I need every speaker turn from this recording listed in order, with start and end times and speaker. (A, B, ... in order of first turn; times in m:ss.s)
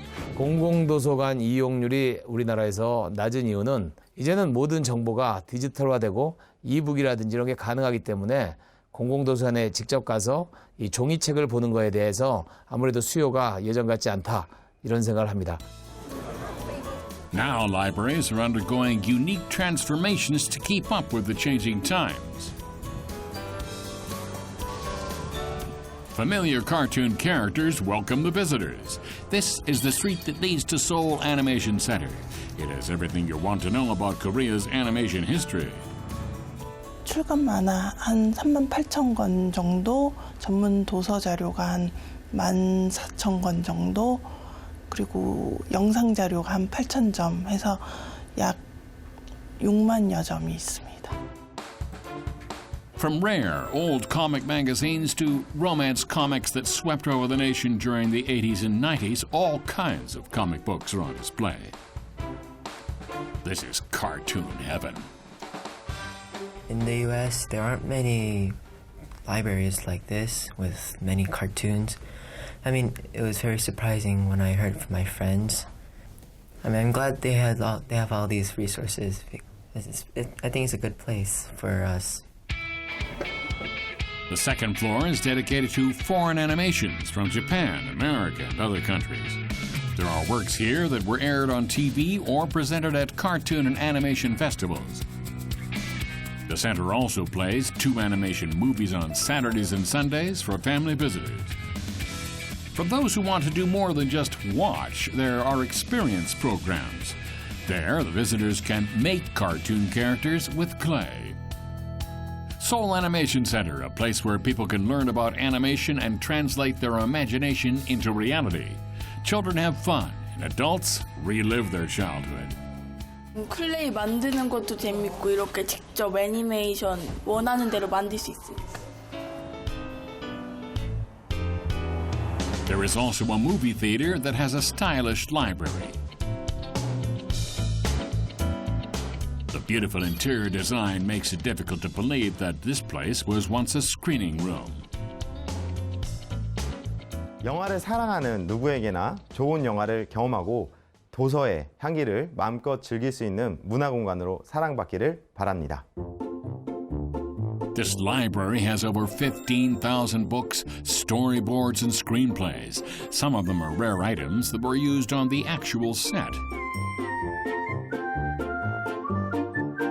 0:00.4-0:15.6 A
0:17.3-0:22.5 B
0:26.1-0:35.8 B
0:37.0-0:44.4 C
0:44.9-0:48.6 C
0:49.6-0:51.2 C
0:53.0-1:01.7 B
1:03.4-1:05.1 B
1:06.7-1:08.6 D
1:09.3-1:12.0 D
1:12.6-1:15.7 D
1:16.6-1:22.2 D
1:24.3-1:29.4 B
1:30.0-1:35.0 B
1:36.5-1:41.6 B
1:42.7-1:51.4 B
1:52.6-2:02.6 B
2:03.4-2:08.7 E
2:12.7-2:16.0 B
2:19.5-2:24.8 B
2:27.4-2:35.8 F
2:37.8-2:46.4 B